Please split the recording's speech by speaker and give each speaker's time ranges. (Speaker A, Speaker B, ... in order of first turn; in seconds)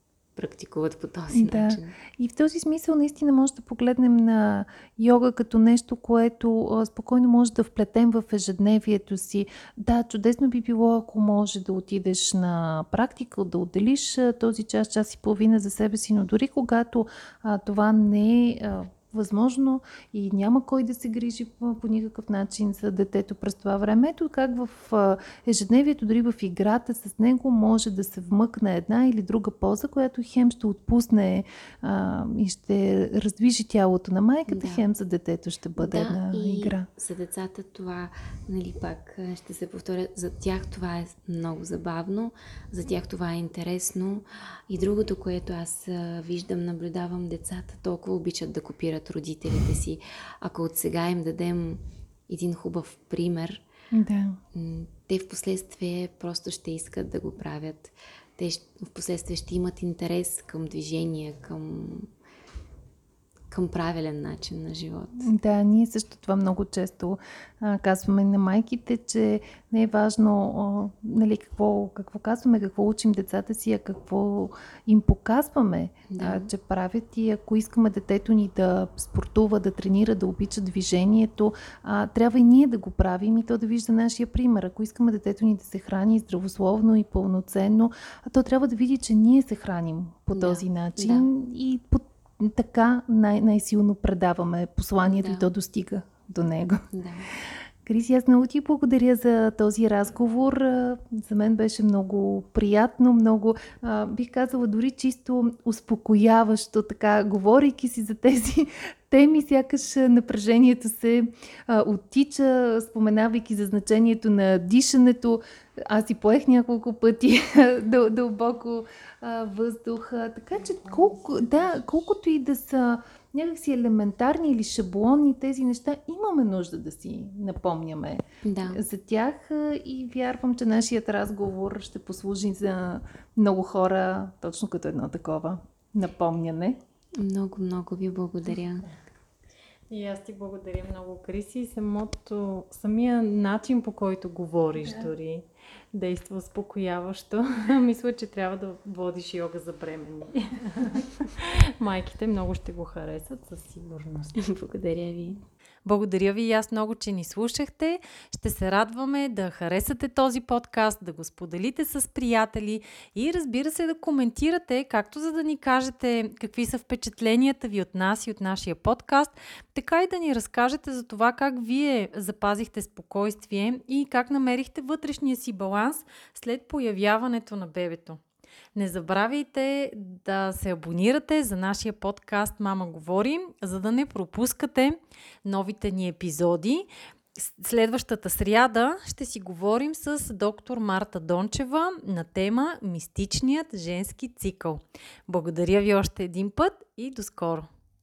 Speaker A: 0.4-2.0, 34.5-34.9, 35.8-53.6, 54.5-62.1, 63.5-65.3, 76.1-76.5, 90.3-91.3, 95.0-95.5, 96.9-97.3, 128.4-128.8, 137.2-138.9, 154.4-155.4
Speaker B: 1.3-36.9, 53.9-54.4, 65.2-96.9, 97.8-136.8
Speaker C: 139.9-154.4, 155.8-178.2, 178.8-197.7